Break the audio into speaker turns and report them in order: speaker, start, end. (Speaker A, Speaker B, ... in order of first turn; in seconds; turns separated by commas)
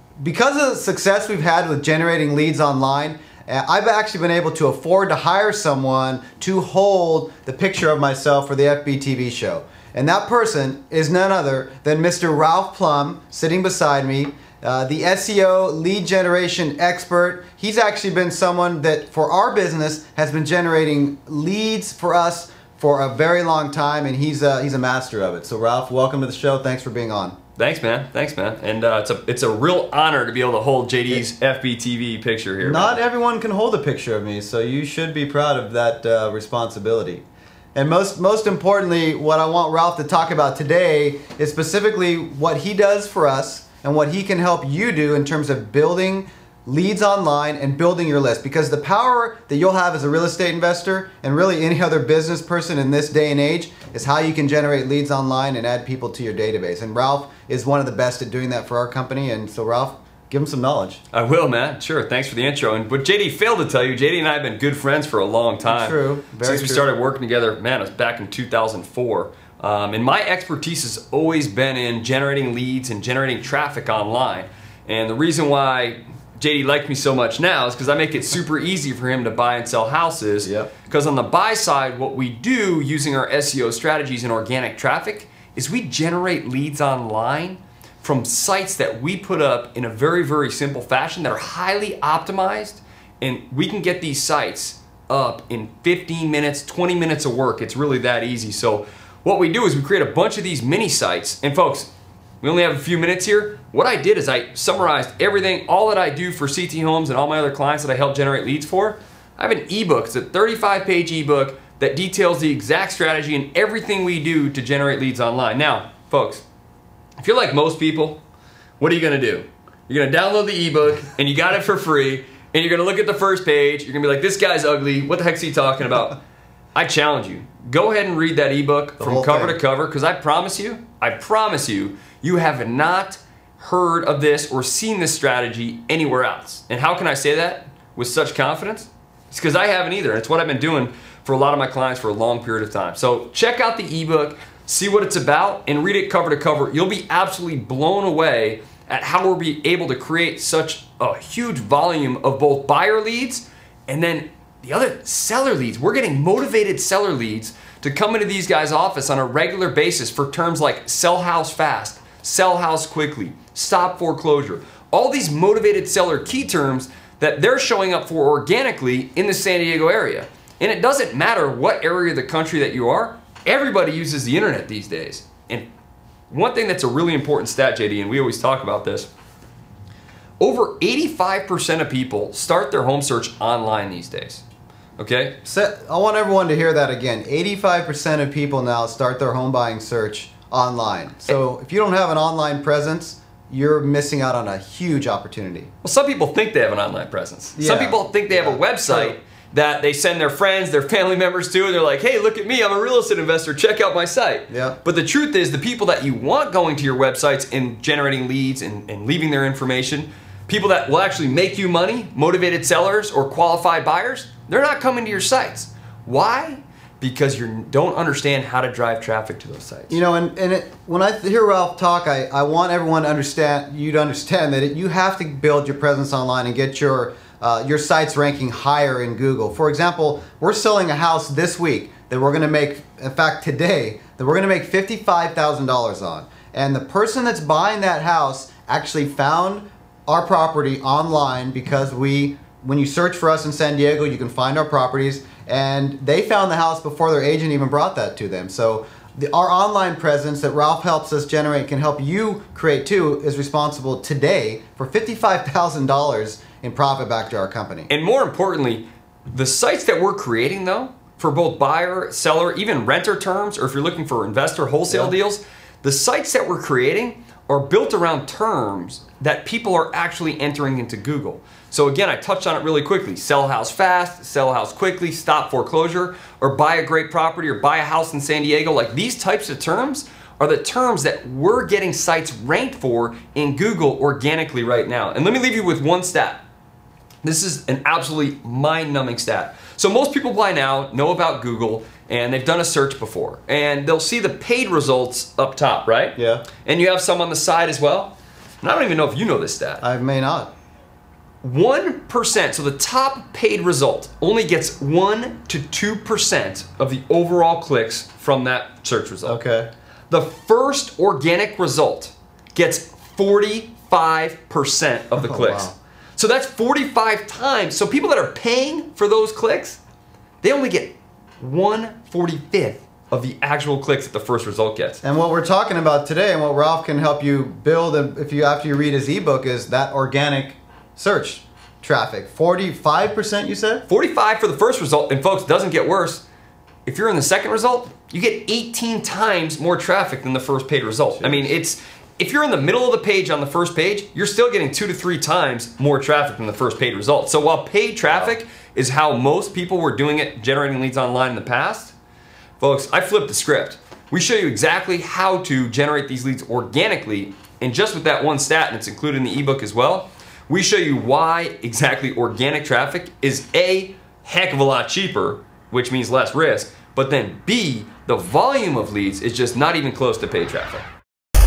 Speaker A: 0.2-27.4, Speaker B: 27.6-33.0, Speaker A: 32.6-37.2, Speaker A: 37.7-61.0, Speaker B: 61.1-101.9, Speaker A: 65.7-66.9, Speaker A: 80.4-80.7, Speaker B: 102.4-116.4, Speaker B: 117.2-118.2, Speaker B: 118.8-126.2, Speaker B: 126.7-175.7, Speaker A: 129.0-129.6, Speaker B: 176.3-179.1, Speaker B: 180.4-184.4, Speaker B: 185.0-185.4, Speaker A: 185.4-195.7, Speaker B: 195.8-220.0, Speaker A: 197.6-199.1, Speaker A: 204.5-204.8, Speaker A: 219.9-257.9, Speaker B: 257.9-286.4, Speaker A: 264.9-265.1, Speaker B: 287.2-299.8, Speaker A: 296.2-296.4, Speaker A: 299.8-300.5, Speaker B: 301.4-309.4, Speaker A: 309.2-309.7, Speaker B: 310.1-319.8, Speaker A: 315.1-315.8, Speaker B: 320.4-325.0, Speaker A: 325.0-333.8, Speaker B: 333.9-336.2, Speaker B: 336.9-351.9, Speaker A: 341.1-341.5, Speaker B: 352.6-370.9